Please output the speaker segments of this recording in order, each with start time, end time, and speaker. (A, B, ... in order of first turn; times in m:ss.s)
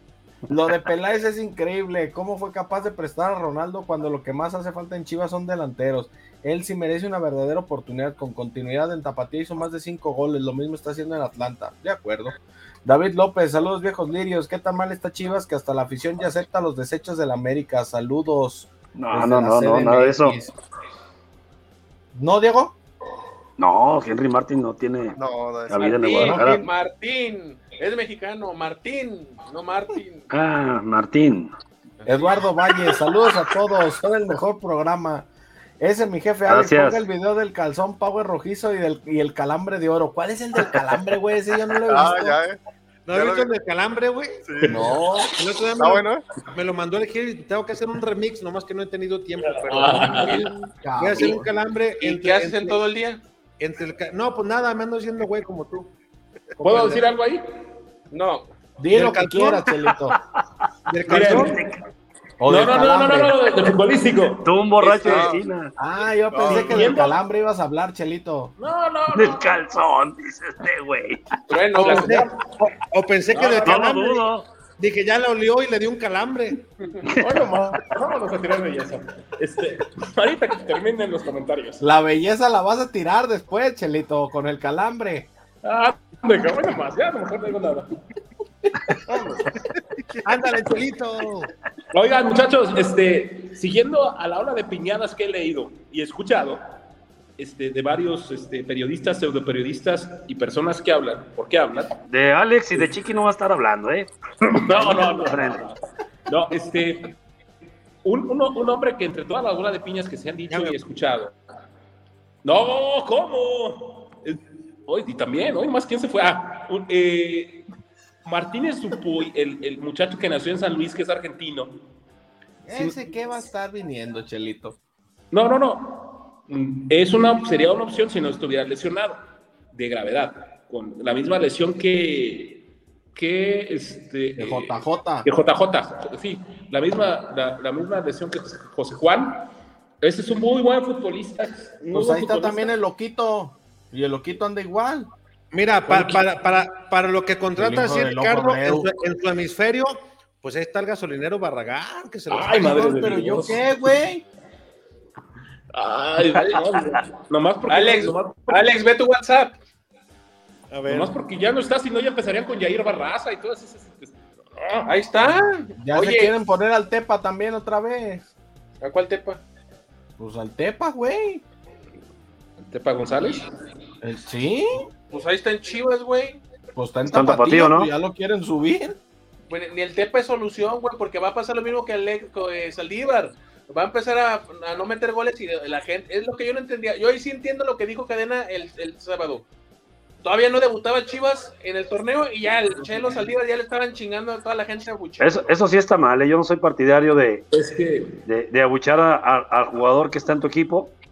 0:00.5-0:20.5 A
0:18.9-0:20.4 B
0:22.1-0:22.7 A
0:23.6-0:25.2 B
0:25.2-0:26.3 C
0:25.7-0:26.7 B
0:25.8-0:30.3 D
0:26.2-0:26.7 A
0:30.3-0:31.5 B
0:32.0-0:32.3 D
0:32.0-0:35.3 A
0:35.8-0:42.4 A
0:36.5-0:37.0 B
0:41.9-0:42.6 C
0:43.0-0:44.4 E
0:43.1-0:43.5 C
0:44.4-0:44.8 C
0:44.6-0:44.9 F
0:44.7-0:45.4 A
0:45.3-0:50.4 E
0:45.8-0:46.2 C
0:49.4-0:50.5 F
0:50.3-0:51.5 A
0:51.0-0:52.8 E
0:52.0-0:53.2 D
0:53.6-0:55.9 E
0:56.6-0:57.1 E
0:56.6-0:57.4 F
0:58.1-0:58.5 D
0:58.8-1:00.2 A
0:58.9-0:59.7 E
1:00.9-1:01.6 E
1:01.1-1:01.6 F
1:01.1-1:01.8 B
1:02.4-1:03.4 A
1:02.5-1:05.4 F
1:04.4-1:05.7 B
1:05.8-1:08.5 A
1:06.4-1:07.2 F
1:06.4-1:06.9 E
1:08.6-1:09.6 F
1:09.1-1:11.4 B
1:11.5-1:12.2 D
1:11.7-1:12.3 F
1:11.8-1:14.2 E
1:13.3-1:13.8 F
1:13.6-1:14.5 B
1:14.8-1:16.6 E
1:17.0-1:17.8 B
1:17.2-1:21.8 F
1:21.8-1:25.3 A
1:25.6-1:27.9 F
1:28.9-1:29.4 A
1:30.2-1:31.5 E
1:31.9-1:36.6 F
1:37.4-1:42.0 F
1:42.1-1:45.7 B
1:44.7-1:47.1 F
1:48.0-1:51.3 F
1:50.5-1:50.8 E
1:52.4-1:57.6 F
1:58.2-2:01.8 F
2:02.6-2:04.8 A
2:02.7-2:03.2 E
2:05.3-2:19.5 F
2:14.4-2:15.3 A
2:20.0-2:22.7 F
2:21.9-2:25.1 A
2:25.5-2:32.8 E
2:27.5-2:28.9 A
2:32.3-2:33.7 F
2:32.5-2:34.2 A
2:35.7-2:38.8 F
2:36.3-2:36.7 D
2:37.7-2:39.6 D
2:40.7-2:41.2 E
2:40.9-2:44.9 F
2:44.8-2:46.3 D
2:45.8-2:48.2 A
2:48.8-2:49.4 D
2:50.2-2:51.4 A
2:52.6-2:53.4 F
2:54.0-2:54.9 A
2:55.1-2:56.4 D
2:56.7-2:59.0 A
2:57.0-2:57.9 B
2:59.5-3:09.4 D
3:10.2-3:15.5 D
3:12.8-3:13.3 F
3:15.2-3:17.4 B
3:17.5-3:18.2 F
3:18.2-3:20.9 B